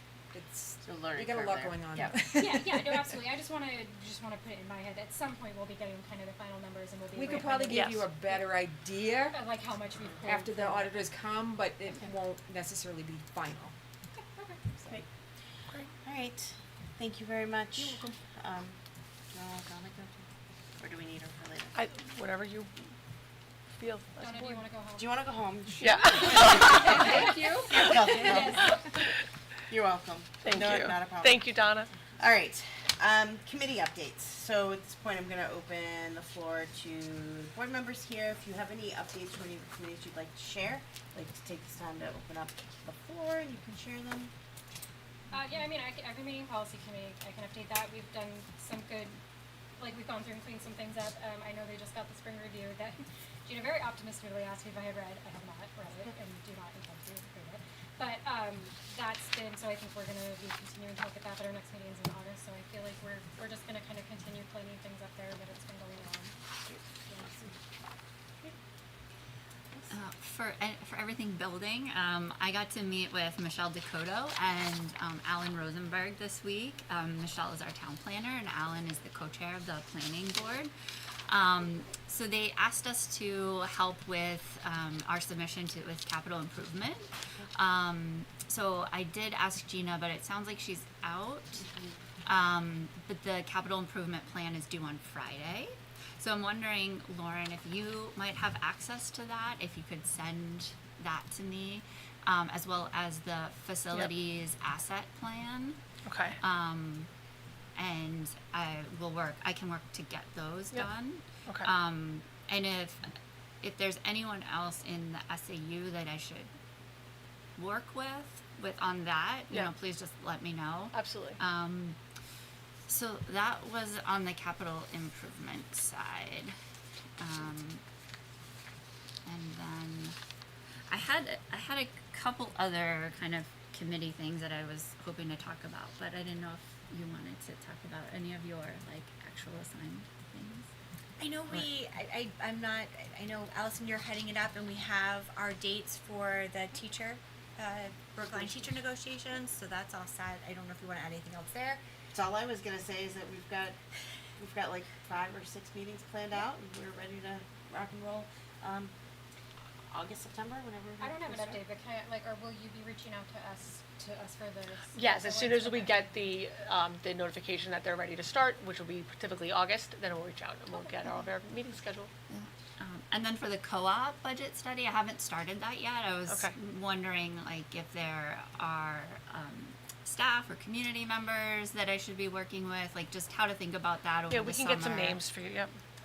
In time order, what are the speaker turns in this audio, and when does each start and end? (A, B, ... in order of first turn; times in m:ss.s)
0:00.3-0:03.0 A
0:00.8-0:02.2 B
0:02.3-0:07.7 C
0:07.1-0:09.4 A
0:07.7-0:08.1 D
0:09.3-0:10.9 C
0:10.2-0:13.7 A
0:14.2-0:14.6 C
0:16.0-0:18.8 B
0:17.8-0:18.1 A
0:19.3-0:21.7 B
0:21.7-0:22.8 D
0:23.7-0:24.6 D
0:24.2-0:25.1 C
0:25.0-0:28.8 B
0:25.8-0:26.8 D
0:26.5-0:28.6 A
0:27.7-0:28.0 D
0:29.7-0:31.5 B
0:30.4-0:31.9 D
0:32.2-0:44.3 B
0:45.3-0:49.2 C
0:49.8-1:06.4 C
1:06.6-1:07.5 B
1:07.0-1:07.4 C
1:09.9-1:20.7 E
1:21.3-1:31.6 E
1:31.6-1:32.0 B
1:32.2-1:45.8 E
1:46.0-1:46.4 D
1:46.4-1:47.1 E
1:47.8-1:53.0 E
1:53.6-1:56.5 E
1:57.6-2:02.0 E
2:00.9-2:01.4 D
2:02.8-2:06.5 E
2:07.2-2:07.8 E
2:09.2-2:10.2 E
2:10.9-2:20.7 E
2:21.2-2:31.8 F
2:28.3-2:28.6 B
2:32.1-2:33.8 B
2:34.4-2:38.9 B
2:39.9-2:41.6 B
2:41.0-2:46.1 C
2:44.9-2:52.1 D
2:52.3-3:05.2 E
2:56.3-2:56.5 D
3:04.3-3:05.8 D